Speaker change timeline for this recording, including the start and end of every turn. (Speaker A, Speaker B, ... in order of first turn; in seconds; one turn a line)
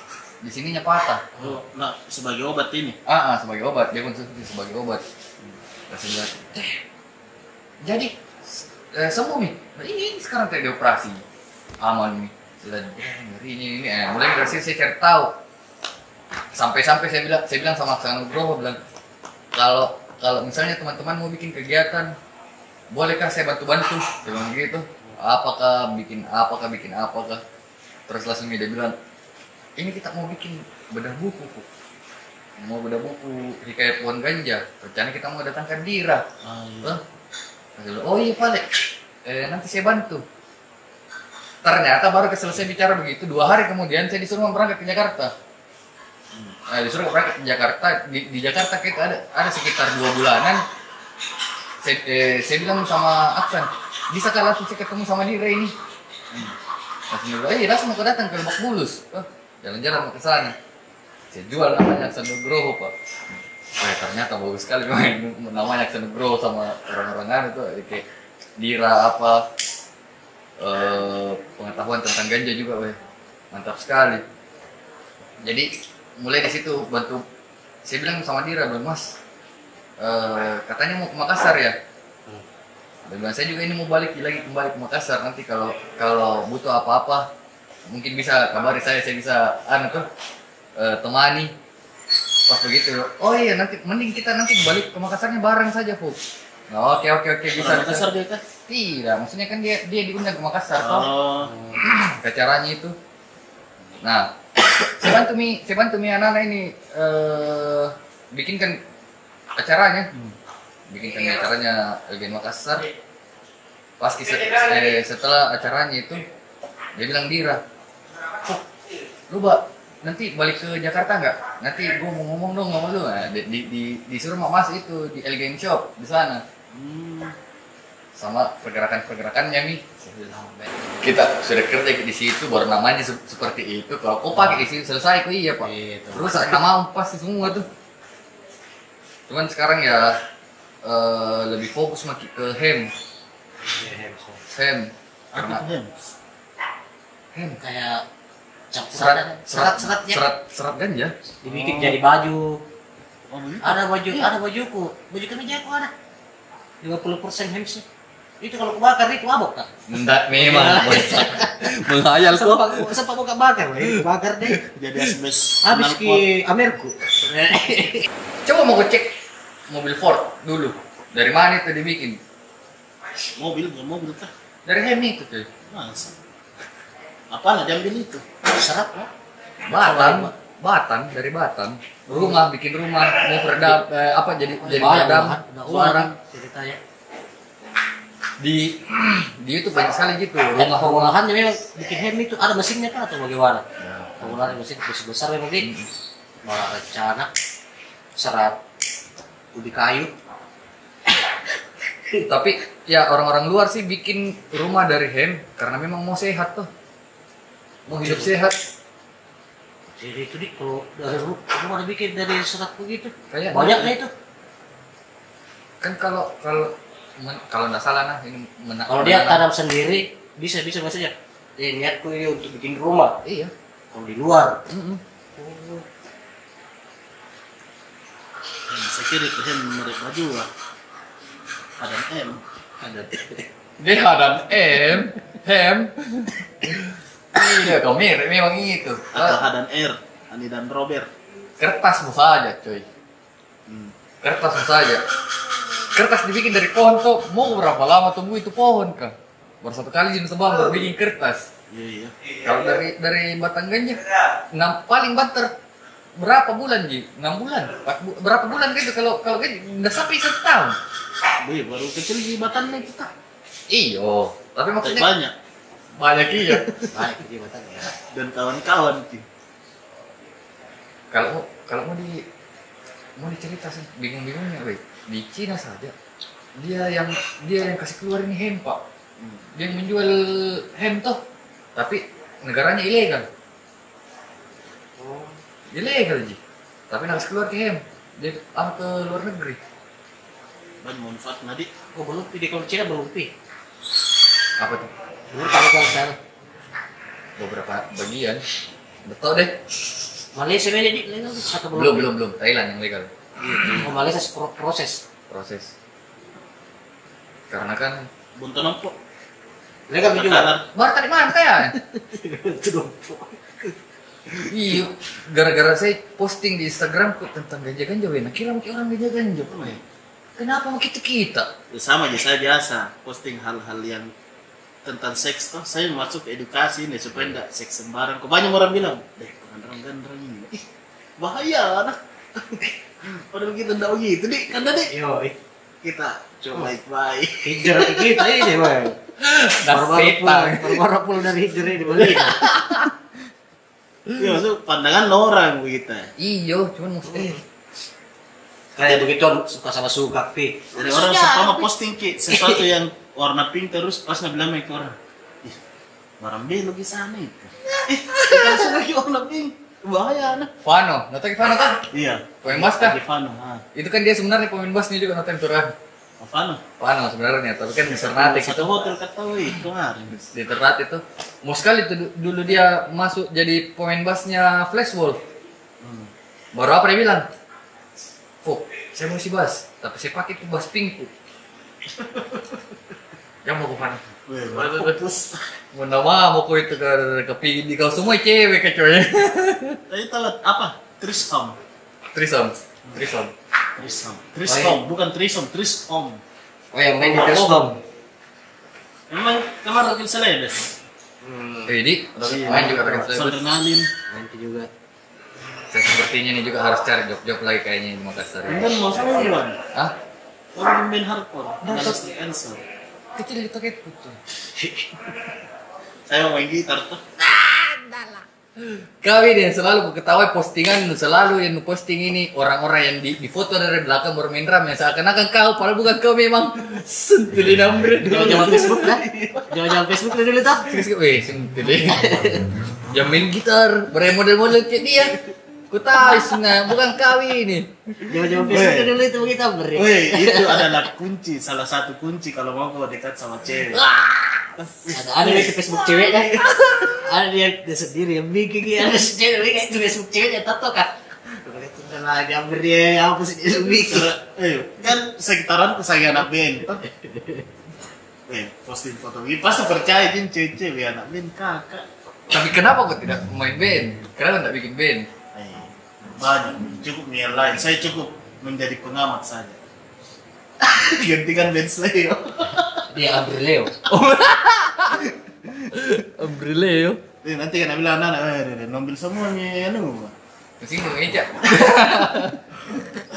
Speaker A: 0.4-1.3
Speaker B: 1.4-3.0
Speaker A: 3.1-5.0
Speaker A: 5.9-6.8
Speaker A: 7.8-11.2
Speaker A: 11.8-15.3
Speaker A: 16.5-18.8
Speaker A: 19.5-22.1
Speaker A: 22.9-27.4
Speaker A: 28.1-28.9
Speaker A: 29.8-31.7
Speaker A: 32.6-36.2
Speaker B: 36.4-37.0
Speaker A: 37.8-38.7
Speaker A: 39.2-40.2
Speaker A: 41.6-45.3
Speaker A: 46.7-50.6
Speaker A: 51.8-55.7
Speaker B: 56.3-56.6
Speaker A: 57.1-60.5
Speaker A: 61.3-62.9
Speaker A: 63.8-68.0
Speaker A: 68.6-69.5
Speaker A: 70.6-73.0
Speaker A: 73.5-74.2
Speaker A: 75.4-77.2
Speaker A: 77.8-79.2
Speaker A: 80.0-81.8
Speaker A: 83.1-87.3
Speaker A: 87.9-90.1
Speaker A: 90.8-91.5
Speaker A: 92.5-96.2
Speaker A: 96.7-98.1
Speaker B: 97.5-98.4
Speaker A: 98.7-101.1
Speaker B: 100.8-101.5
Speaker C: 101.5-101.8
Speaker A: 101.8-103.0
Speaker A: 104.0-108.8
Speaker A: 109.6-110.1
Speaker A: 110.9-112.9
Speaker A: 114.0-116.2
Speaker A: 117.0-117.6
Speaker A: 119.3-126.4
Speaker B: 126.7-127.4
Speaker A: 128.2-137.7
Speaker C: 134.3-134.7
Speaker C: 135.6-136.6
Speaker A: 139.3-140.2
Speaker A: 140.8-142.9
Speaker C: 143.7-144.4
Speaker A: 144.5-145.6
Speaker B: 145.3-146.0
Speaker A: 147.3-147.6
Speaker C: 147.6-148.0
Speaker C: 148.7-150.2
Speaker A: 148.9-151.1
Speaker C: 151.4-152.6
Speaker B: 151.5-152.0
Speaker B: 153.3-154.3
Speaker C: 153.6-155.9
Speaker C: 156.8-157.8
Speaker C: 158.4-159.7
Speaker A: 159.9-162.9
Speaker C: 160.3-164.6
Speaker B: 164.7-166.3
Speaker C: 165.6-168.1
Speaker A: 168.4-169.1
Speaker A: 169.7-172.2
Speaker B: 173.4-174.3
Speaker A: 174.7-175.5
Speaker B: 175.7-176.2
Speaker B: 177.3-178.2
Speaker C: 178.5-179.1
Speaker A: 179.7-186.1
Speaker C: 179.7-180.3
Speaker C: 182.1-182.4
Speaker C: 184.6-186.8
Speaker A: 188.4-191.1
Speaker C: 190.6-193.7
Speaker A: 193.8-194.6
Speaker C: 194.2-195.7
Speaker A: 195.6-195.9
Speaker C: 196.4-197.3
Speaker C: 198.2-198.6
Speaker C: 199.5-200.1
Speaker A: 202.3-206.7
Speaker A: 207.9-208.6
Speaker C: 207.9-208.3
Speaker C: 210.0-214.1
Speaker A: 213.3-213.9
Speaker A: 215.8-219.4
Speaker C: 218.9-223.2
Speaker A: 223.2-223.5
Speaker C: 223.9-224.6
Speaker A: 224.7-225.0
Speaker C: 225.4-225.8
Speaker B: 228.7-230.5
Speaker B: 231.8-232.4
Speaker C: 232.8-233.4
Speaker A: 233.8-239.4
Speaker B: 239.1-241.1
Speaker A: 241.6-242.8
Speaker B: 243.7-243.9
Speaker A: 244.2-245.0
Speaker A: 245.9-251.5
Speaker B: 251.7-252.2
Speaker A: 252.4-254.0
Speaker A: 254.5-255.5
Speaker A: 256.2-260.8
Speaker B: 261.4-263.1
Speaker A: 263.7-265.1
Speaker B: 264.8-265.3
Speaker A: 266.0-266.9
Speaker C: 266.9-267.9
Speaker B: 268.1-269.3
Speaker A: 271.1-272.2
Speaker A: 273.2-275.9
Speaker A: 276.6-278.8
Speaker A: 279.6-281.2
Speaker A: 281.8-283.3
Speaker C: 285.0-285.4
Speaker A: 285.7-286.4
Speaker A: 286.9-289.6
Speaker B: 290.8-291.7
Speaker C: 291.9-293.3
Speaker A: 294.6-294.9
Speaker C: 295.3-296.2
Speaker A: 297.4-298.4
Speaker A: 299.1-300.0
Speaker C: 300.4-302.1
Speaker A: 301.7-303.9
Speaker C: 303.4-305.0
Speaker A: 305.3-305.7
Speaker A: 307.5-308.1
Speaker B: 308.4-309.0
Speaker C: 309.9-310.5
Speaker B: 310.0-310.7
Speaker A: 310.7-311.8
Speaker C: 311.7-313.7
Speaker A: 314.5-319.8
Speaker B: 319.5-319.8
Speaker A: 320.4-321.5
Speaker B: 321.7-324.1
Speaker B: 324.8-330.6
Speaker B: 331.2-334.9
Speaker C: 334.9-335.4
Speaker B: 335.8-338.5
Speaker C: 337.4-339.0
Speaker A: 339.2-340.8
Speaker C: 339.7-342.5
Speaker A: 342.0-342.9
Speaker B: 344.2-346.1
Speaker A: 346.2-347.4
Speaker C: 347.1-347.4
Speaker C: 348.8-351.7
Speaker B: 350.7-355.6
Speaker C: 352.3-352.7
Speaker B: 356.2-360.5
Speaker A: 360.6-361.9
Speaker B: 361.9-363.6
Speaker A: 362.4-363.0
Speaker A: 363.8-365.7
Speaker B: 366.2-366.6
Speaker A: 366.8-368.7
Speaker B: 367.8-370.2
Speaker A: 370.3-375.2
Speaker B: 375.8-376.1
Speaker A: 376.5-377.3
Speaker A: 378.4-381.1
Speaker B: 381.9-382.6
Speaker A: 383.4-385.0
Speaker B: 384.3-385.4
Speaker A: 385.7-389.8
Speaker B: 389.9-391.6
Speaker A: 392.1-393.3
Speaker B: 393.8-396.2
Speaker C: 394.5-394.8
Speaker C: 396.7-397.8
Speaker B: 397.1-397.5
Speaker B: 399.1-400.8
Speaker C: 401.2-401.7
Speaker A: 401.7-403.4
Speaker B: 402.2-403.9
Speaker C: 402.5-403.0
Speaker C: 404.1-404.7
Speaker A: 405.7-409.9
Speaker B: 408.5-409.6
Speaker B: 410.5-412.6
Speaker A: 411.6-412.0
Speaker A: 413.2-414.2
Speaker B: 416.1-417.0
Speaker A: 417.2-429.0
Speaker B: 428.0-429.8
Speaker C: 428.0-430.8
Speaker A: 430.6-432.3
Speaker C: 431.9-432.5
Speaker A: 432.9-435.2
Speaker A: 435.7-438.0
Speaker C: 438.1-440.8
Speaker B: 438.4-438.9
Speaker B: 439.8-443.9
Speaker A: 443.7-444.5
Speaker B: 444.6-446.6
Speaker C: 444.9-454.1
Speaker A: 446.4-447.0
Speaker B: 453.8-456.8
Speaker C: 456.8-457.5
Speaker B: 458.3-461.9
Speaker A: 462.3-465.1
Speaker B: 465.3-469.6
Speaker B: 470.6-472.9
Speaker C: 472.9-473.8
Speaker A: 473.9-475.1
Speaker B: 475.3-475.7
Speaker A: 475.7-477.0
Speaker B: 477.2-480.1
Speaker A: 480.6-482.6